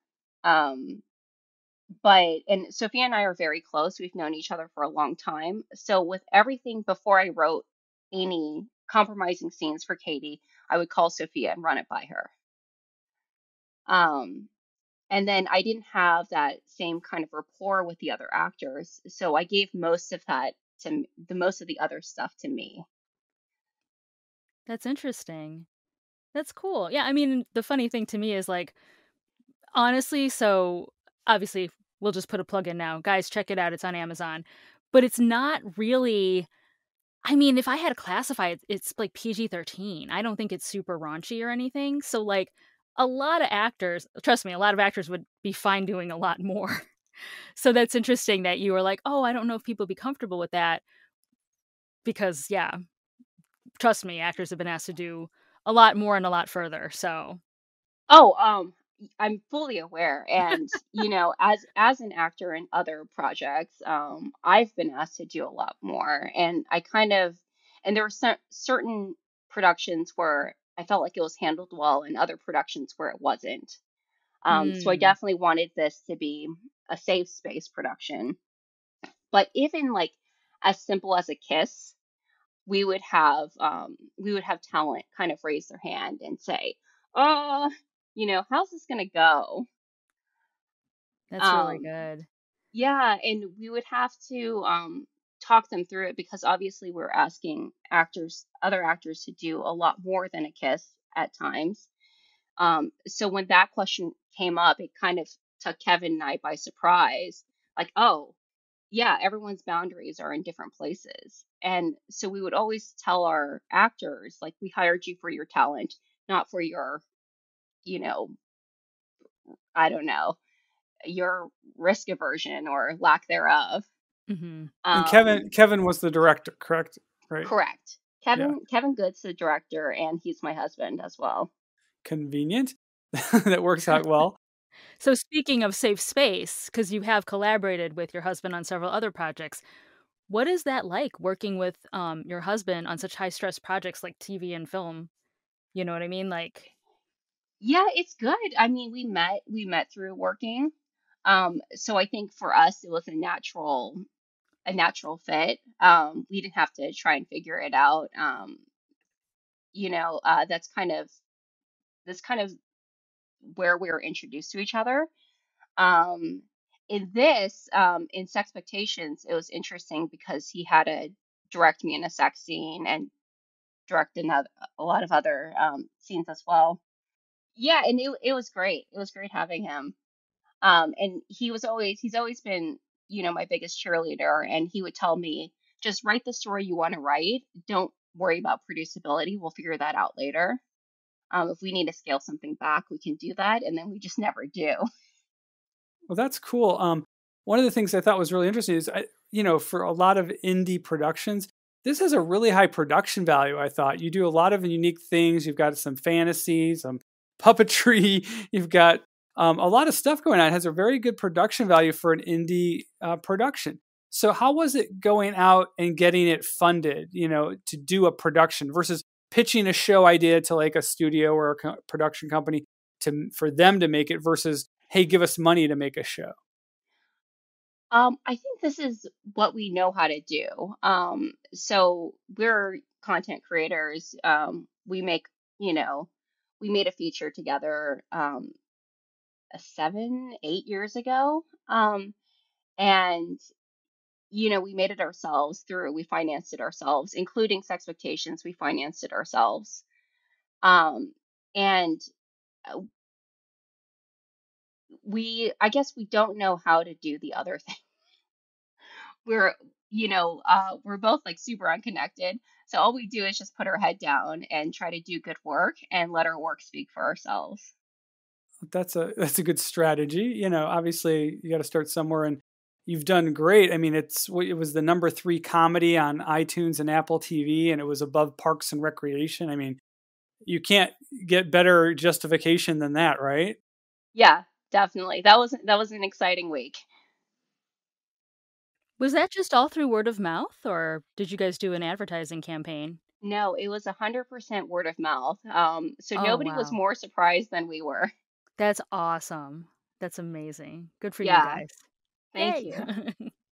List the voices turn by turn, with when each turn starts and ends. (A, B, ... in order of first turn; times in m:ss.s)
0:00.4-0:01.0 A
0:02.0-0:12.3 A
0:13.9-0:14.5 A
0:15.1-0:22.9 A
0:24.7-0:25.7 B
0:26.3-0:28.8 B
0:29.7-0:36.5 B
0:37.2-0:46.9 B
0:47.6-0:50.8 B
0:52.0-0:52.8 B
0:53.8-0:57.4 B
0:58.1-1:13.8 A
1:14.4-1:18.4 A
1:14.5-1:15.2 B
1:19.3-1:22.0 A
1:22.7-1:29.7 A
1:31.3-1:32.3 B
1:31.4-1:31.9 A
1:32.7-1:41.9 A
1:42.6-1:48.3 A
1:48.9-1:57.0 A
1:57.8-1:58.3 A
1:59.8-2:00.4 A
2:01.0-2:03.9 A
2:04.3-2:04.7 B
2:04.8-2:05.5 A
2:04.9-2:07.5 C
2:07.4-2:11.5 A
2:12.0-2:14.4 C
2:15.0-2:19.6 B
2:20.3-2:25.1 B
2:25.7-2:26.7 B
2:27.6-2:30.7 A
2:31.3-2:34.0 A
2:34.7-2:38.6 A
2:39.7-2:41.1 A
2:42.1-2:42.6 A
2:43.4-2:45.1 A
2:45.8-2:53.1 A
2:53.9-2:56.8 A
2:57.6-3:00.0 A
3:00.6-3:10.6 A
3:11.3-3:14.8 A
3:16.1-3:46.4 C
3:47.9-3:56.1 A
3:56.6-3:58.6 A
3:59.5-4:02.2 A
4:02.8-4:03.4 A
4:04.3-4:09.8 A
4:10.6-4:12.0 A
4:15.0-4:17.8 A
4:19.2-4:27.7 A
4:28.6-4:39.8 C
4:40.4-4:43.6 C
4:44.2-4:46.8 A
4:49.0-4:53.0 B
4:53.2-4:58.1 A
4:56.2-4:56.8 B
4:58.6-5:01.8 B
5:01.2-5:01.6 A
5:02.3-5:02.9 A
5:02.4-5:03.3 B